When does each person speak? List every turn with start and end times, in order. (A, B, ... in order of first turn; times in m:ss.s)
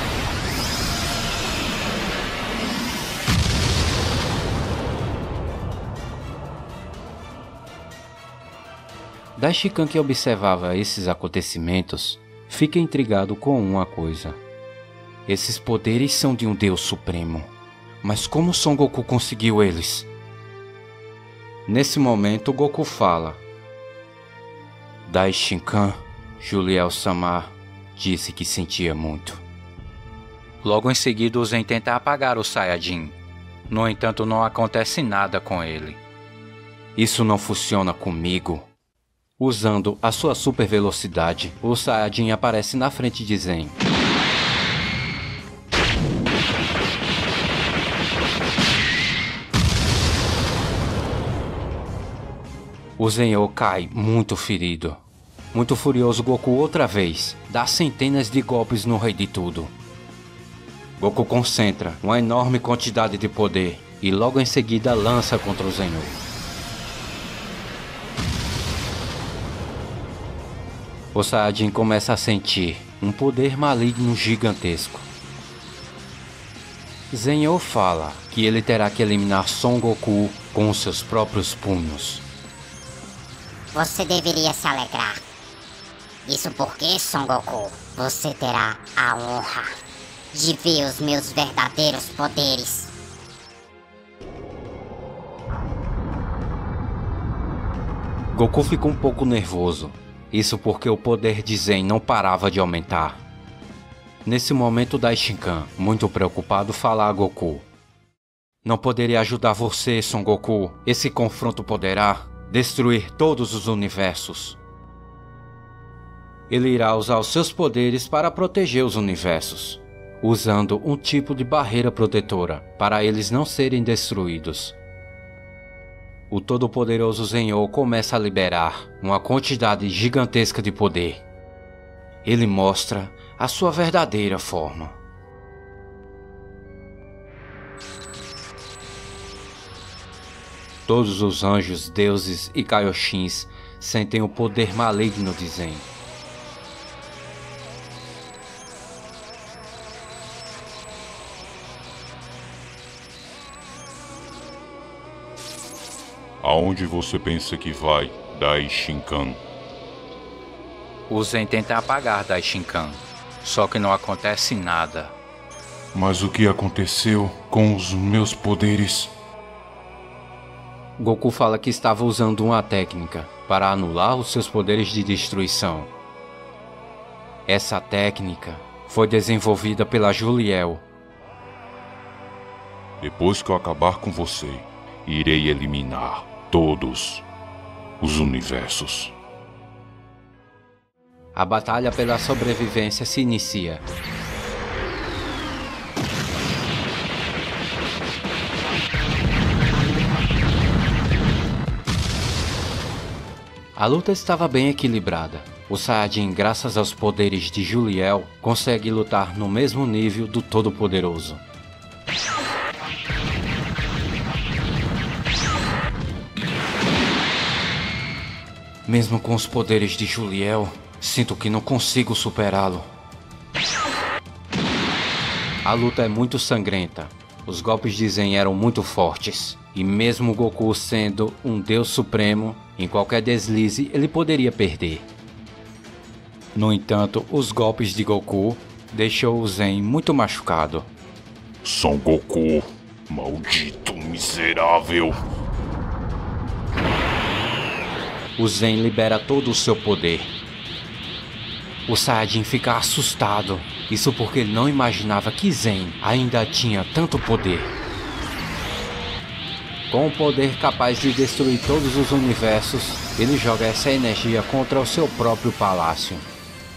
0:09.4-0:14.4 A
0:15.2-0:17.5 A
0:18.0-0:20.1 A
0:21.7-0:23.4 A
0:25.0-0:29.4 A
0:30.6-0:33.2 A
0:33.7-0:36.0 A
0:37.0-0:38.7 A
0:39.4-0:43.8 A
0:53.0-0:55.0 A
0:55.5-0:59.7 A
1:01.0-1:06.2 A
1:11.1-1:15.1 A
1:17.1-1:22.2 A
1:23.7-1:25.2 B
1:26.2-1:29.7 B
1:30.3-1:32.9 B
1:38.3-1:43.2 A
1:44.2-1:47.6 A
1:48.6-1:54.6 A
1:56.5-2:04.8 A
2:06.3-2:11.2 A
2:12.2-2:15.0 A
2:20.8-2:25.9 A
2:36.4-2:39.4 C
2:41.1-2:45.1 A
2:45.9-2:49.1 C
2:51.0-2:55.9 A
2:57.5-3:00.8 A
3:03.0-3:07.2 C
3:08.0-3:09.1 C
3:11.3-3:13.8 A
3:23.7-3:31.4 A
3:38.8-3:42.9 A
3:45.6-3:55.0 A
3:56.5-4:00.9 A
4:01.6-4:05.2 C
4:08.4-4:10.3 A
4:11.9-4:17.7 A
4:19.9-4:26.2 A